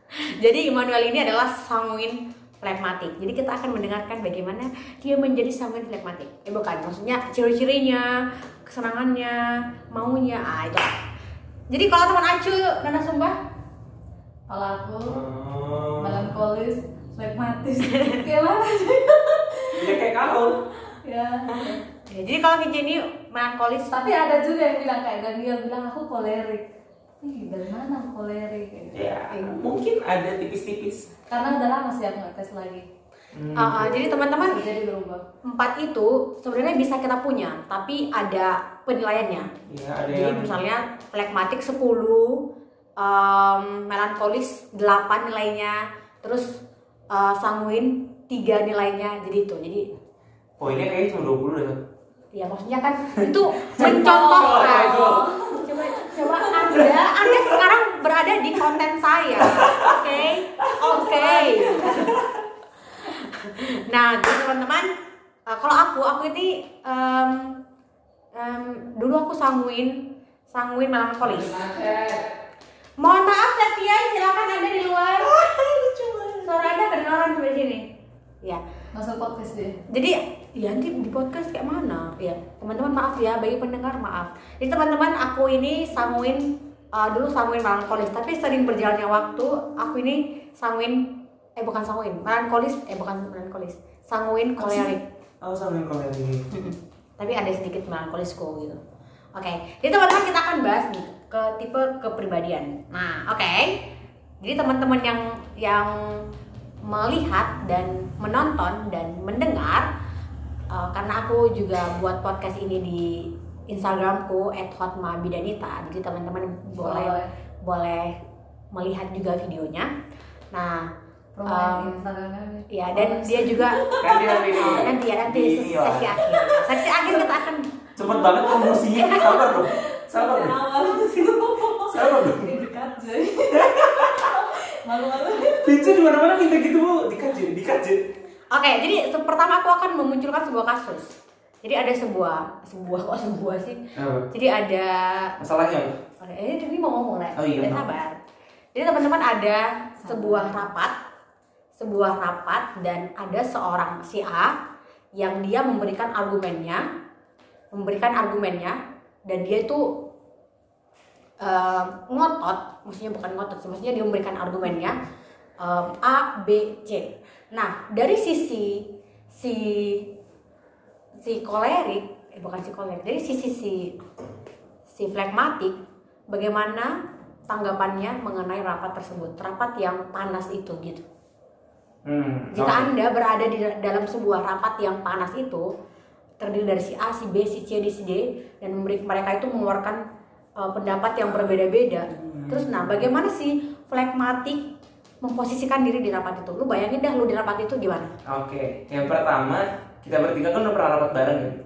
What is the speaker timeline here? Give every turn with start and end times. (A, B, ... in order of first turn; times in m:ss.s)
0:00.3-0:08.1 A
0:08.6-0:10.9 A
0:11.7-0:13.4 A
0:14.5-0:15.2 B
0:15.1-0:16.3 C
0:16.0-0:20.0 B
0:17.8-0:18.2 A
0:19.7-0:20.5 C
0:20.8-0:21.8 B
0:21.5-0:24.1 A
0:23.9-0:26.7 B
0:27.2-0:29.0 B
0:28.9-0:31.1 C
0:29.3-0:29.6 A
0:31.3-0:32.8 B
0:33.3-0:34.0 C
0:33.5-0:34.6 A
0:34.1-0:35.2 B
0:35.4-0:39.5 A
0:39.7-0:40.6 C
0:40.1-0:42.4 A
0:43.0-0:46.5 A
0:47.1-0:50.0 A
0:50.6-0:51.8 C
0:52.3-1:02.1 A
0:53.2-0:55.6 C
0:53.8-0:56.7 B
0:56.7-0:57.6 C
0:59.4-1:00.0 C
1:00.9-1:02.2 B
1:01.9-1:02.2 C
1:03.0-1:04.9 A
1:05.5-1:07.5 A
1:08.3-1:11.6 A
1:11.2-1:12.2 C
1:13.0-1:15.4 A
1:15.3-1:16.6 C
1:16.4-1:17.9 A
1:18.9-1:19.8 B
1:19.9-1:31.0 A
1:31.6-1:35.0 A
1:34.6-1:36.5 C
1:36.5-1:38.8 A
1:39.4-1:43.8 A
1:44.4-1:46.2 A
1:46.9-1:49.8 A
1:50.7-1:58.1 A
1:56.7-1:57.3 B
1:58.7-1:59.9 A
2:00.5-2:00.9 A
2:01.3-2:04.8 B
2:01.4-2:02.0 A
2:02.7-2:07.6 A
2:04.0-2:06.7 C
2:07.0-2:07.3 B
2:08.0-2:10.6 C
2:08.0-2:16.0 B
2:08.9-2:09.5 A
2:11.2-2:12.6 C
2:13.5-2:14.3 C
2:15.6-2:18.0 C
2:18.5-2:23.8 A
2:24.0-2:24.3 C
2:24.3-2:25.3 A
2:25.4-2:26.0 C
2:26.2-2:28.2 A
2:27.4-2:27.8 C
2:28.7-2:30.9 A
2:30.0-2:30.7 B
2:31.8-2:34.5 A
2:35.2-2:36.8 A
2:37.7-2:38.8 A
2:39.3-2:40.0 A
2:41.4-2:45.0 A
2:45.6-2:50.1 A
2:51.2-2:53.9 A
2:54.9-2:55.8 A
2:56.3-2:56.9 A
2:57.5-3:01.0 A
3:02.0-3:02.9 C
3:02.5-3:05.7 A
3:06.4-3:10.0 A
3:10.6-3:14.6 A
3:12.1-3:12.9 C
3:15.2-3:18.1 A
3:18.2-3:21.6 C